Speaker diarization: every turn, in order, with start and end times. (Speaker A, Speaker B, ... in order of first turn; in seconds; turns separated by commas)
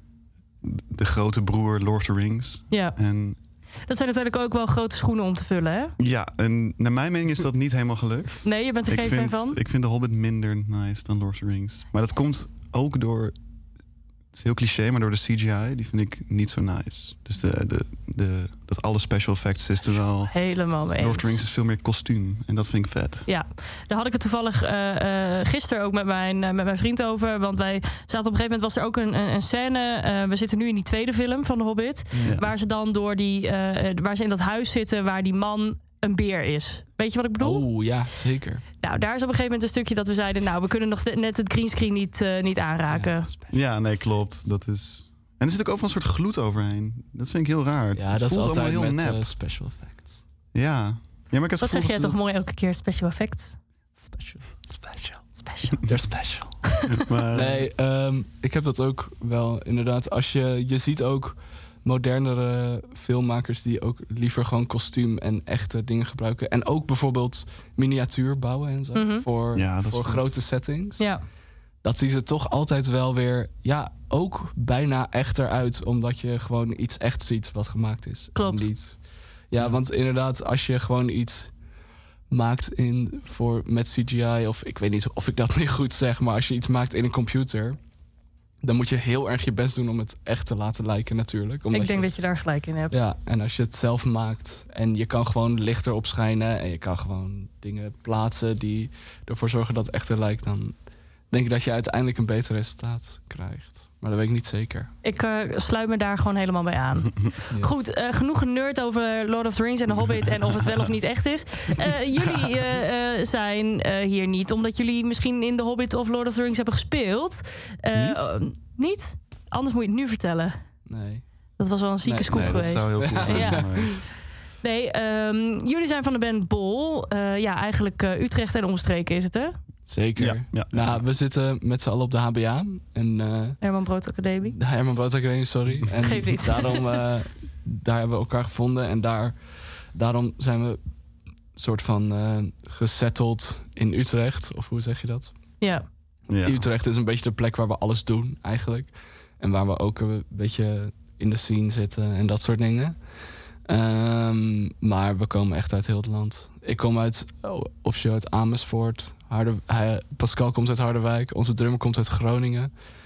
Speaker A: 0.6-3.4, Speaker B: 2.7-3.0, Speaker B: 3.9-5.9, Speaker A: 6.0-13.3, Speaker B: 8.4-9.6, Speaker A: 14.3-23.3, Speaker B: 20.3-21.4, Speaker B: 23.3-37.6, Speaker C: 32.1-32.4, Speaker A: 32.2-32.5, Speaker C: 37.4-38.6, Speaker B: 38.8-43.3, Speaker C: 42.9-43.5, Speaker A: 43.5-49.3, Speaker C: 48.0-50.2, Speaker A: 50.5-52.3, Speaker B: 51.6-53.6, Speaker C: 54.0-56.7, Speaker B: 55.3-55.8, Speaker A: 56.9-57.7, Speaker C: 57.3-71.0, Speaker B: 68.9-69.3, Speaker A: 69.5-70.4, Speaker B: 71.0-71.2, Speaker C: 71.8-81.5, Speaker B: 78.3-78.7, Speaker C: 82.3-87.8, Speaker C: 88.6-92.1, Speaker B: 91.7-93.1, Speaker C: 92.9-100.7, Speaker C: 101.3-104.9, Speaker B: 105.0-120.6, Speaker C: 107.5-107.8, Speaker A: 117.9-118.2, Speaker C: 120.9-121.2, Speaker B: 121.6-129.5, Speaker C: 122.0-123.9, Speaker A: 122.3-124.0, Speaker C: 129.8-133.6, Speaker A: 130.2-131.0, Speaker B: 133.6-134.6, Speaker C: 134.4-140.8, Speaker B: 135.9-137.0, Speaker C: 141.5-145.3, Speaker B: 145.6-145.8, Speaker A: 146.3-146.6, Speaker C: 146.4-153.0, Speaker C: 153.7-162.7